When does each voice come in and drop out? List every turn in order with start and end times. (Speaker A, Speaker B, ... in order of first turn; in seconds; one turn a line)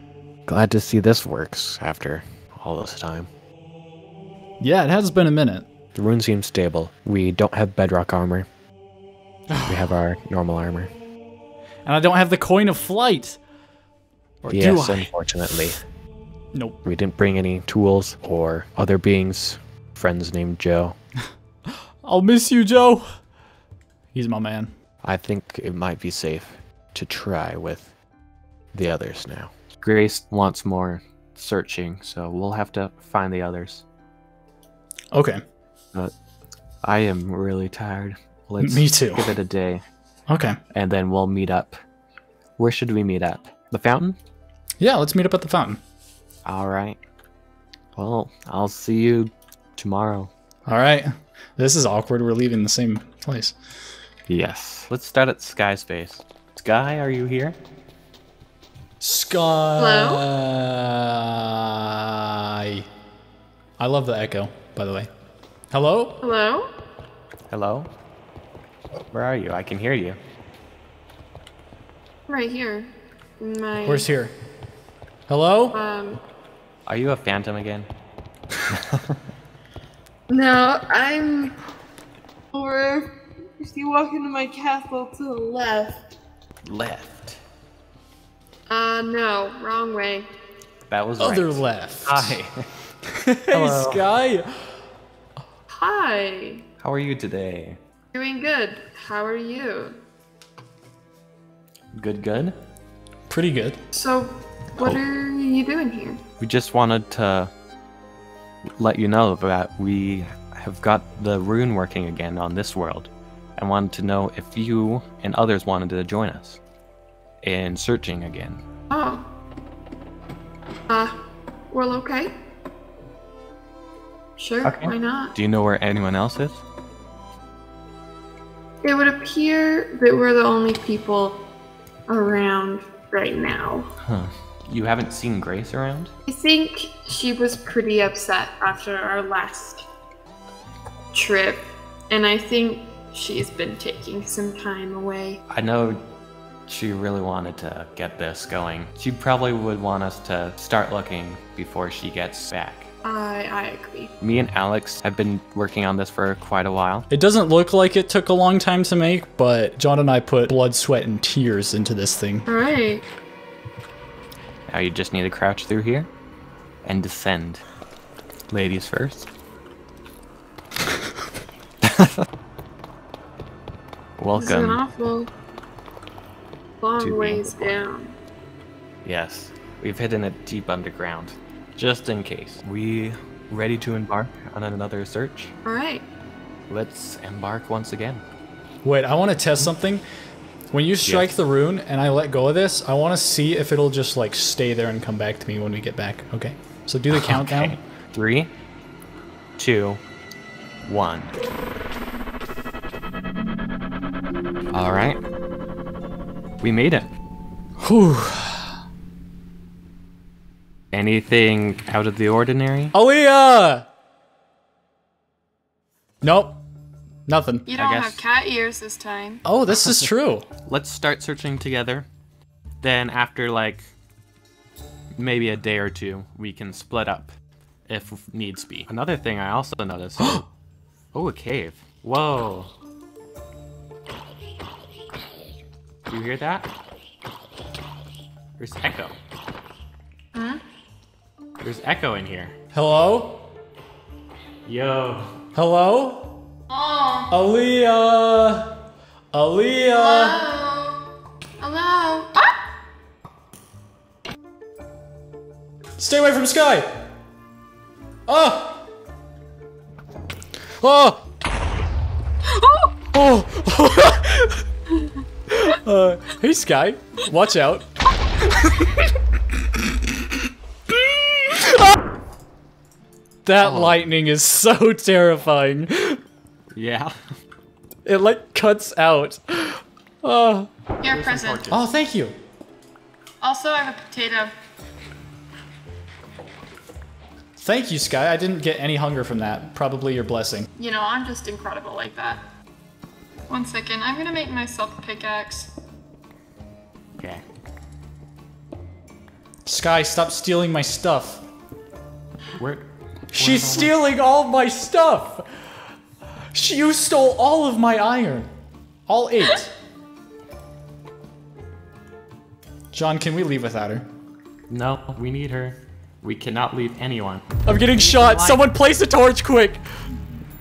Speaker A: 0.5-3.3
Speaker B: 4.6-5.7
Speaker A: 5.9-8.5
Speaker B: 9.5-10.0
Speaker A: 9.7-10.9
Speaker B: 11.9-13.4
Speaker B: 14.4-15.8
Speaker A: 14.5-15.8
Speaker B: 16.5-16.8
Speaker A: 16.8-21.0
Speaker B: 21.7-23.1
Speaker B: 24.1-24.7
Speaker A: 25.0-27.9
Speaker A: 28.7-33.9
Speaker B: 35.1-35.4
Speaker A: 36.8-39.8
Speaker B: 38.6-39.3
Speaker B: 40.3-40.6
Speaker A: 40.7-41.8
Speaker A: 42.6-44.2
Speaker B: 44.8-45.8
Speaker A: 46.5-47.0
Speaker A: 48.0-50.3
Speaker B: 50.7-53.5
Speaker A: 54.3-57.6
Speaker B: 59.0-62.9
Speaker C: 59.8-60.3
Speaker B: 63.8-65.1
Speaker B: 65.7-66.2
Speaker C: 66.2-66.7
Speaker A: 67.5-67.9
Speaker A: 69.1-70.2
Speaker C: 72.3-74.1
Speaker B: 73.8-74.3
Speaker B: 75.3-75.8
Speaker C: 75.7-76.2
Speaker A: 76.9-77.9
Speaker A: 78.7-79.2
Speaker C: 80.3-81.6
Speaker C: 82.5-86.0
Speaker A: 86.7-87.4
Speaker C: 88.7-90.3
Speaker A: 90.9-92.7
Speaker B: 91.2-92.4
Speaker B: 93.2-94.8
Speaker A: 93.5-94.1
Speaker C: 95.7-96.6
Speaker A: 96.8-97.8
Speaker C: 98.1-100.0
Speaker A: 101.9-102.6
Speaker B: 103.3-103.8
Speaker C: 103.9-106.2
Speaker A: 104.8-105.0
Speaker A: 106.4-107.5
Speaker A: 108.8-116.6
Speaker A: 117.4-118.6
Speaker C: 118.9-119.2
Speaker C: 120.9-121.1
Speaker C: 121.7-122.3
Speaker C: 124.4-125.3
Speaker A: 124.6-126.6
Speaker C: 128.8-131.4
Speaker C: 132.1-133.9
Speaker A: 134.0-136.1
Speaker C: 136.3-139.8
Speaker C: 141.1-145.4
Speaker A: 145.5-146.0
Speaker A: 146.7-152.9
Speaker C: 153.0-154.1
Speaker A: 154.2-157.1
Speaker B: 157.1-162.5
Speaker C: 162.5-163.1
Speaker A: 164.7-166.1
Speaker A: 166.8-167.6
Speaker A: 168.5-169.3
Speaker A: 171.8-172.2
Speaker A: 174.2-174.9
Speaker C: 174.3-175.3
Speaker C: 176.8-178.2
Speaker A: 177.0-177.9
Speaker A: 179.0-185.5
Speaker C: 185.7-186.1
Speaker A: 186.7-188.2
Speaker B: 188.8-190.1
Speaker A: 189.5-189.8
Speaker B: 190.7-197.8
Speaker A: 191.0-191.4
Speaker A: 197.1-198.5
Speaker A: 199.6-200.0
Speaker A: 200.8-201.3
Speaker A: 204.7-205.2
Speaker A: 206.6-207.1
Speaker B: 207.8-208.8
Speaker A: 210.9-212.9
Speaker B: 212.9-213.9
Speaker B: 216.2-216.6
Speaker B: 217.3-217.7
Speaker C: 217.7-219.4
Speaker A: 217.7-218.3
Speaker B: 219.4-220.5
Speaker A: 219.7-220.1
Speaker A: 220.7-222.1
Speaker A: 222.8-223.9
Speaker A: 225.2-227.3
Speaker A: 227.9-230.5
Speaker A: 231.1-232.7
Speaker A: 236.1-236.7
Speaker A: 238.6-239.2
Speaker C: 240.3-240.6
Speaker A: 241.6-242.6
Speaker B: 242.7-243.5
Speaker A: 244.7-245.4
Speaker B: 245.6-246.4
Speaker C: 246.7-247.3
Speaker B: 247.3-248.8
Speaker B: 249.3-250.5
Speaker C: 249.9-251.0
Speaker C: 251.6-252.5
Speaker B: 256.0-256.9
Speaker B: 258.3-258.9
Speaker B: 260.8-261.2
Speaker C: 262.6-262.9
Speaker B: 263.1-264.6
Speaker B: 265.5-267.9
Speaker B: 268.6-268.9
Speaker B: 270.9-271.9
Speaker B: 273.4-276.2
Speaker A: 273.6-274.2
Speaker A: 276.7-277.2
Speaker B: 278.1-280.7
Speaker C: 281.0-281.7
Speaker A: 281.0-281.9
Speaker B: 281.7-282.4
Speaker C: 283.4-284.6
Speaker B: 287.6-290.7
Speaker C: 290.8-292.4
Speaker C: 293.5-295.7
Speaker A: 297.2-297.4
Speaker B: 299.7-301.4
Speaker A: 302.6-304.1
Speaker B: 303.3-305.5
Speaker B: 306.5-308.5
Speaker B: 309.1-309.7
Speaker B: 312.9-314.1
Speaker A: 314.7-318.8
Speaker B: 317.7-320.0